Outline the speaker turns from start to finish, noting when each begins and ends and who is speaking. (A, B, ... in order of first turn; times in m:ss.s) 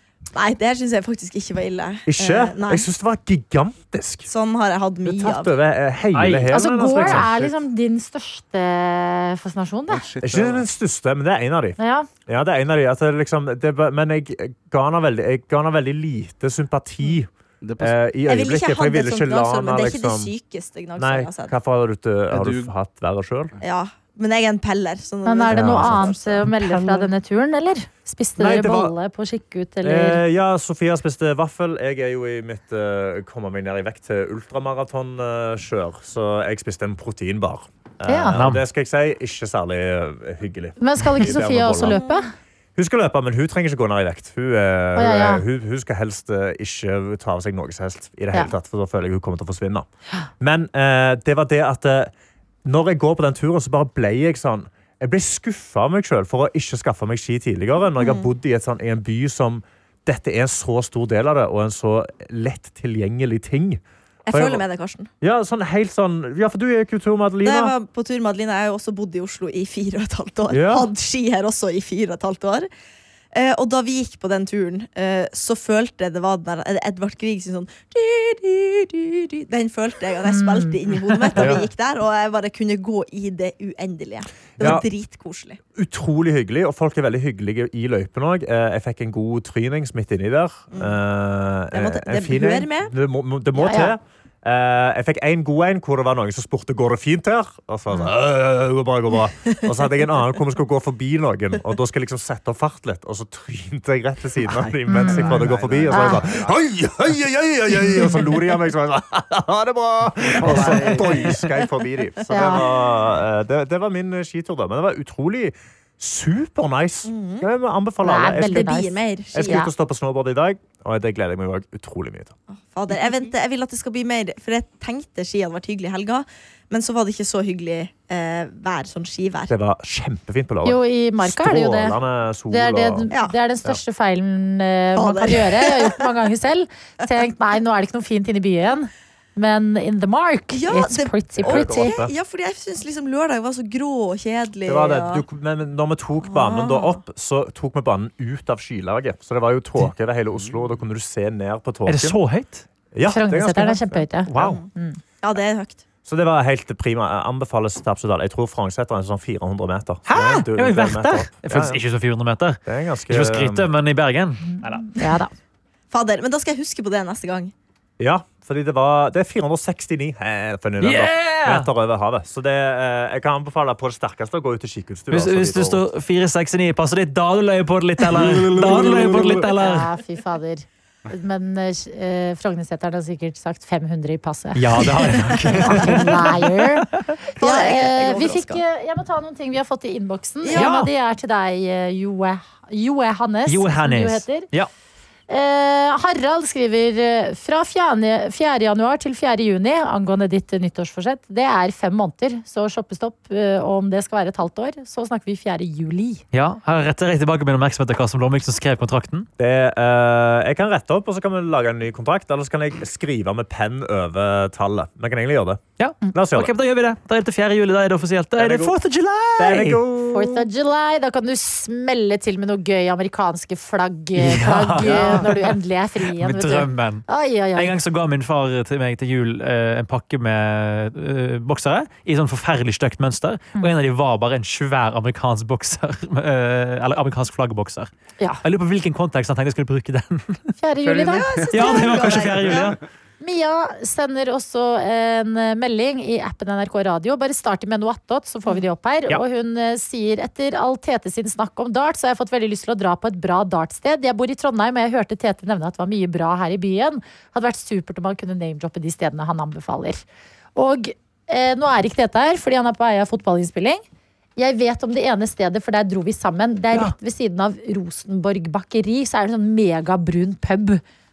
0:00.3-0:02.9 A
0:02.1-0:04.3 B
0:04.3-0:05.5 A
0:05.0-0:07.5 B
0:06.1-0:07.2 C
0:06.5-0:10.1 D
0:09.9-0:10.7 E
0:10.2-0:20.3 B
0:11.8-0:12.1 D
0:17.6-0:17.9 E
0:18.3-0:21.5 A
0:21.0-0:23.5 B
0:22.3-0:22.7 E
0:23.6-0:26.5 A
0:25.2-0:30.2 D
0:25.5-0:26.1 B
0:28.4-0:28.9 B
0:29.8-0:42.0 B
0:38.0-0:38.4 D
0:38.3-0:38.6 C
0:40.8-0:42.3 D
0:41.9-0:42.2 A
0:42.8-0:49.8 B
0:45.0-0:45.4 D
0:50.4-0:52.1 B
0:52.6-1:04.6 B
0:58.0-0:58.3 A
1:04.2-1:05.1 A
1:05.2-1:07.7 B
1:07.4-1:12.7 A
1:10.5-1:10.9 B
1:13.3-1:25.6 A
1:20.2-1:20.8 D
1:21.4-1:21.6 B
1:24.6-1:24.8 B
1:25.7-1:58.7 B
1:30.7-1:31.0 A
1:31.7-1:32.9 A
1:33.6-1:33.9 D
1:39.4-1:40.0 A
1:44.4-1:46.6 E
1:44.9-1:46.2 D
1:50.3-1:51.4 E
1:52.3-1:52.6 D
1:57.0-1:57.5 A
1:58.0-1:59.7 D
1:58.4-1:59.7 A
1:59.3-2:02.3 B
2:02.5-2:09.5 A
2:09.5-2:13.1 B
2:10.6-2:12.0 D
2:12.5-2:21.9 D
2:15.0-2:16.0 A
2:20.5-2:25.2 A
2:21.4-2:22.1 B
2:24.6-2:32.2 B
2:26.2-2:27.0 A
2:31.8-2:32.6 C
2:32.9-2:34.6 B
2:33.0-2:35.0 D
2:34.3-2:34.6 C
2:34.4-2:34.7 A
2:35.2-2:35.8 A
2:36.0-2:41.8 B
2:40.1-2:44.9 C
2:42.6-2:43.7 B
2:44.6-2:45.3 D
2:45.9-2:47.5 A
2:48.0-2:55.8 B
2:50.8-2:51.7 C
2:55.1-2:59.9 C
2:58.1-2:59.4 B
2:59.4-3:14.5 D
3:04.5-3:07.0 C
3:05.3-3:05.9 A
3:07.4-3:08.6 A
3:10.4-3:10.7 A
3:10.5-3:10.9 C
3:13.4-3:14.7 C
3:15.3-3:26.2 D
3:26.3-3:29.3 C
3:29.4-3:35.6 B
3:35.8-3:39.8 C
3:36.1-3:36.5 B
3:38.4-3:38.8 B
3:39.4-3:40.5 B
3:40.1-3:47.8 D
3:44.2-3:57.9 C
3:58.4-4:00.5 C
4:00.6-4:01.9 D
4:00.8-4:01.6 E
4:01.0-4:02.8 A
4:01.5-4:02.8 C
4:03.2-4:20.0 D
4:20.6-4:23.8 D
4:24.4-4:30.8 D